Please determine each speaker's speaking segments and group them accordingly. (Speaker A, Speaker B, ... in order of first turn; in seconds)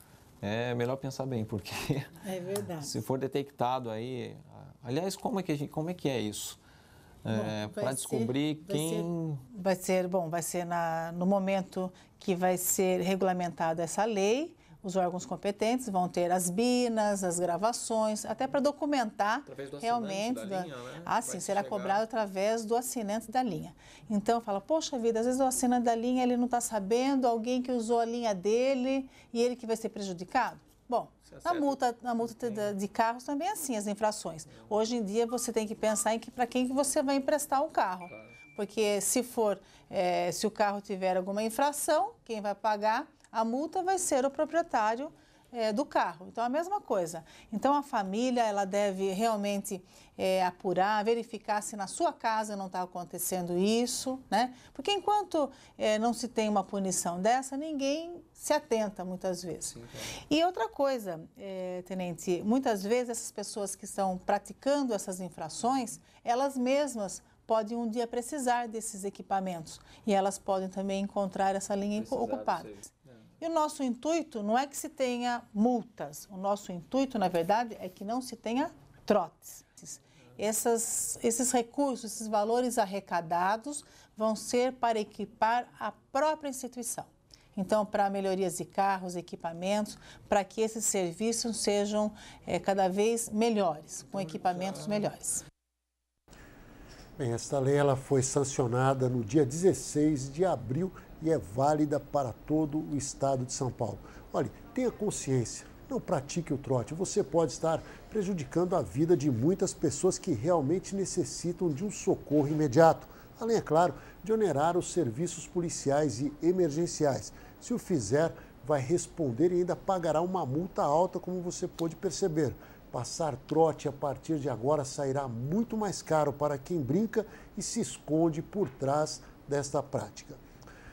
Speaker A: 0.4-2.2, 2.8-6.6, 7.2-9.4, 19.5-22.0, 31.3-31.8, 72.0-72.8
Speaker B: 2.2-3.0, 7.3-95.4
Speaker C: 97.2-130.4